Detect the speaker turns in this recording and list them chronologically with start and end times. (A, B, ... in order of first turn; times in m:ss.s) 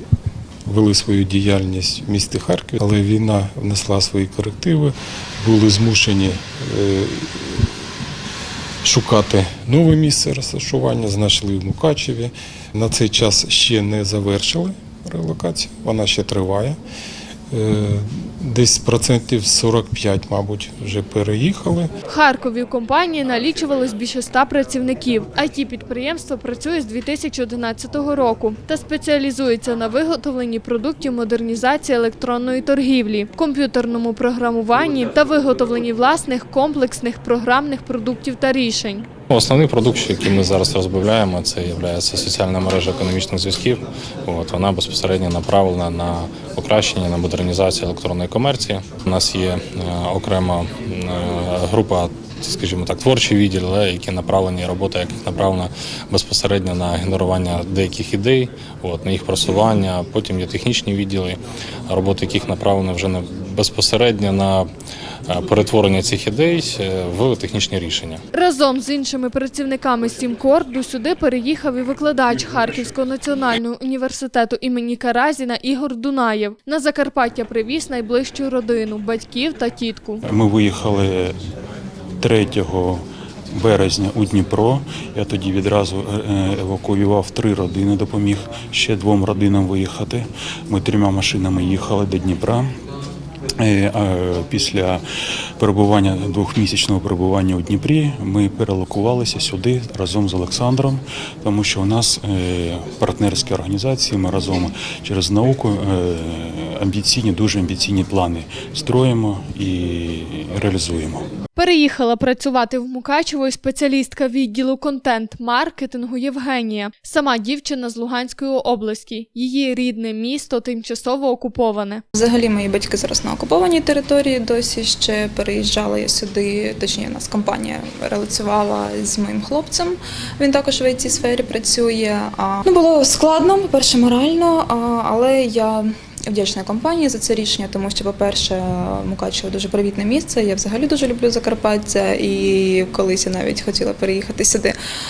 0:00.7-0:07.9 A
0:08.8-0:16.8 A
0:17.5-0:21.9 A
0:22.1-0:39.1 B
0:39.3-1:04.7 C
1:05.3-1:08.2 C
1:08.3-1:20.2 B
1:20.3-1:21.4 D
1:22.2-1:32.7 D
1:33.6-1:35.0 D
1:35.6-1:51.3 D
1:51.6-2:02.0 B
2:02.2-2:24.8 E